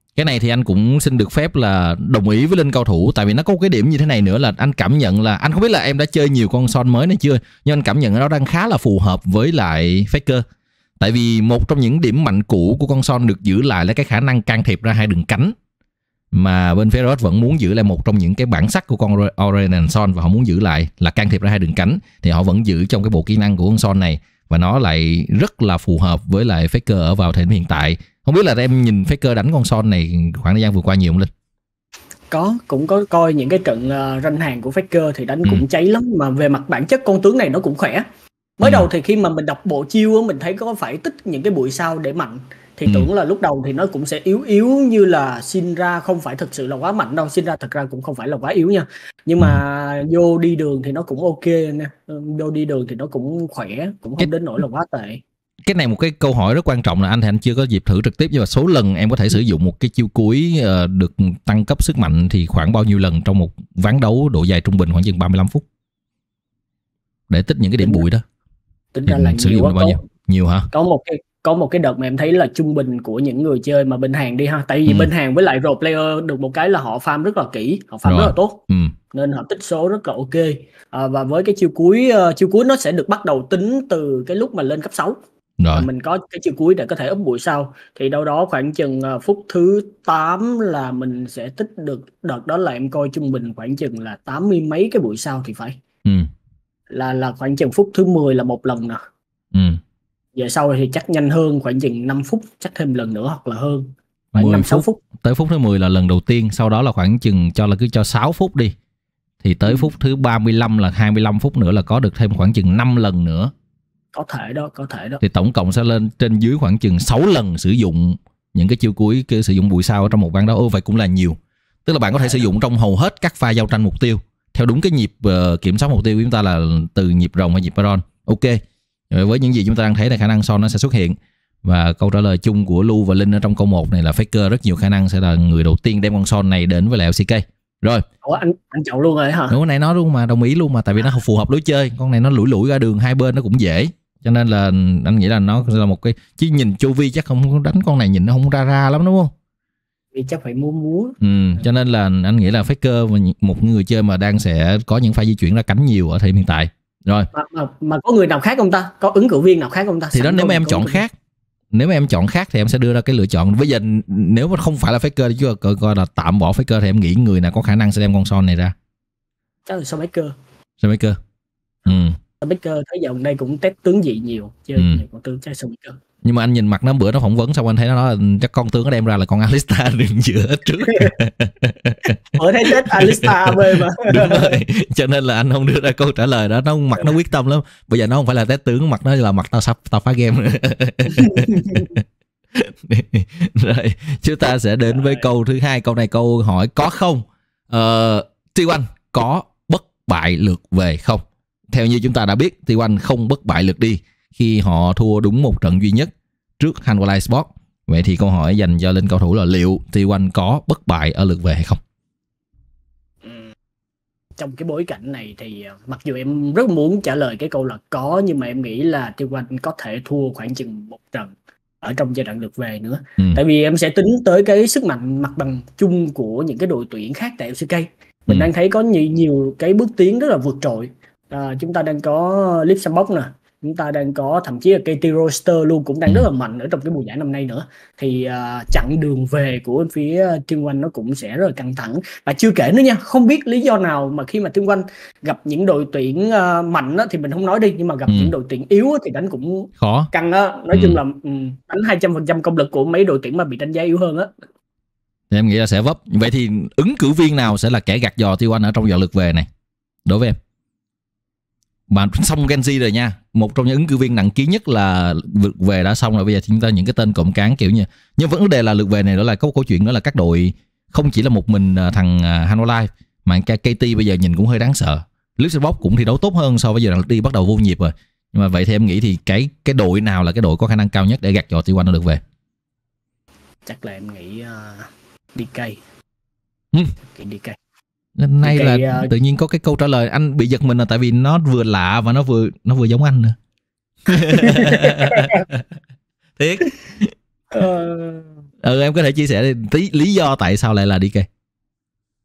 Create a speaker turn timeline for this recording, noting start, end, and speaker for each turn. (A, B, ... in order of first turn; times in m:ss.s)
0:00.2-0:10.4 A
0:11.0-0:15.5 A
0:16.3-0:31.3 A
0:32.3-0:38.0 B
0:38.6-0:55.2 B
0:38.6-0:38.9 A
0:55.6-1:05.6 A
1:07.3-1:08.2 A
1:08.9-1:10.0 B
1:09.1-1:10.7 A
1:10.7-1:18.6 B
1:18.0-1:18.9 A
1:19.1-1:25.2 B
1:25.6-1:25.9 A
1:25.7-1:35.8 B
1:36.9-1:39.0 B
1:39.5-1:39.8 A
1:40.3-1:45.0 B
1:44.3-1:48.7 A
1:49.4-1:53.5 A
1:54.1-1:55.2 B
1:55.2-2:08.6 A
2:09.1-2:18.0 A
2:18.2-2:19.6 B
2:19.5-2:29.3 A
2:30.1-2:31.2 B
2:31.2-2:37.3 A
2:37.3-2:41.0 B
2:40.1-2:41.1 A
2:41.7-2:48.7 A
2:49.7-2:50.3 B
2:50.8-2:51.2 A
2:51.8-2:52.2 A
2:52.4-2:56.0 B
2:54.8-2:55.0 A
2:56.2-3:31.8 A
3:02.3-3:04.6 B
3:11.2-3:11.9 B
3:33.2-3:33.5 B
3:34.4-4:14.3 B
4:08.1-4:08.3 A
4:09.8-4:10.1 A
4:10.7-4:11.0 A
4:15.3-4:19.5 A
4:20.0-4:20.4 A
4:21.9-4:42.2 A
4:43.6-4:45.8 B
4:47.1-4:47.6 B
4:48.2-4:53.4 A
4:48.4-4:49.1 B
4:54.0-4:55.6 A
4:54.2-4:55.5 B
4:56.4-4:57.1 A
4:57.5-4:58.3 B
4:58.6-5:01.3 A